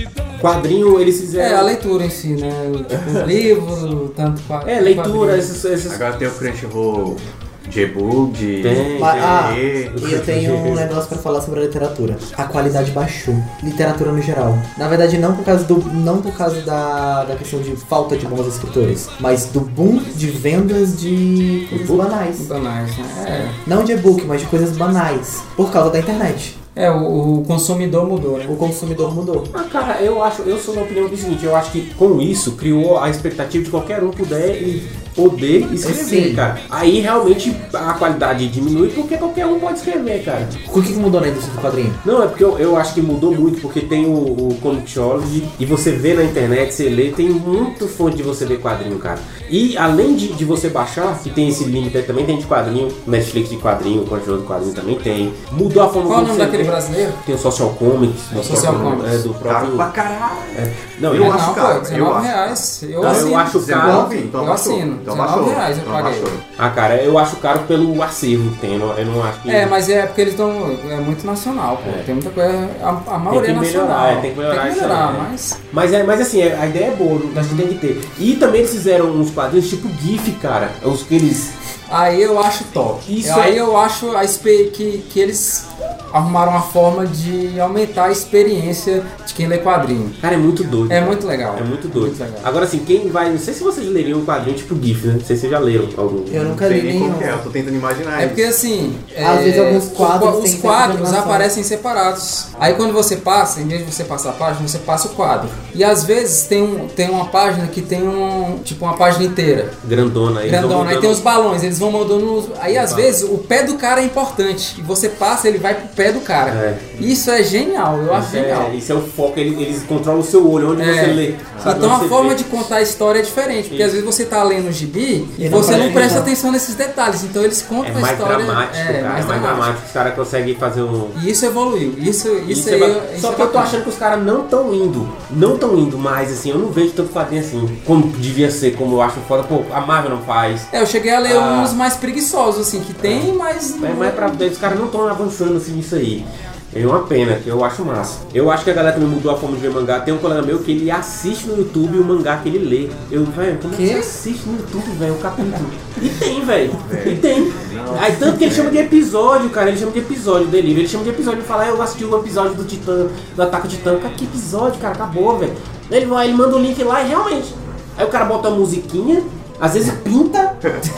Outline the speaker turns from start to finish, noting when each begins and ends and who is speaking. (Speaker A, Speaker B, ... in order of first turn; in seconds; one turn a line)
Speaker A: 0.3-1.7
Speaker B: 1.4-5.6
Speaker A: 4.6-6.0
Speaker C: 5.9-10.0
Speaker A: 8.6-10.9
Speaker D: 8.9-22.5
Speaker A: 21.7-22.1
Speaker B: 22.4-23.6
Speaker D: 23.6-26.6
Speaker B: 26.7-28.6
Speaker D: 28.5-29.5
Speaker A: 29.5-40.6
Speaker D: 35.8-36.5
Speaker D: 40.6-42.0
Speaker A: 42.0-59.9
Speaker B: 56.0-57.2
Speaker B: 58.3-59.2
Speaker C: 58.4-66.4
Speaker A: 60.5-61.6
Speaker B: 61.1-66.3
Speaker A: 63.0-64.1
Speaker A: 66.6-69.7
Speaker B: 69.5-75.6
Speaker A: 71.8-72.1
Speaker A: 73.3-81.5
Speaker B: 77.3-77.7
Speaker B: 81.9-90.2
Speaker A: 83.0-83.6
Speaker A: 90.2-96.6
Speaker B: 90.9-92.5
Speaker D: 96.3-97.4
Speaker C: 96.5-98.5
Speaker B: 98.2-109.8
Speaker D: 99.2-101.5
Speaker A: 109.8-111.2
Speaker B: 110.4-118.7
Speaker A: 112.7-113.1
Speaker A: 116.5-117.0
Speaker A: 118.1-122.7
Speaker B: 120.8-129.7
Speaker C: 121.5-122.0
Speaker A: 123.7-124.0
Speaker D: 125.4-126.3
Speaker A: 125.5-126.2
Speaker A: 127.8-131.2
Speaker B: 131.1-133.8
Speaker A: 132.4-140.7
Speaker B: 140.7-144.5
Speaker A: 141.2-141.8
Speaker A: 143.0-170.6
Speaker D: 153.7-154.1
Speaker C: 156.7-158.9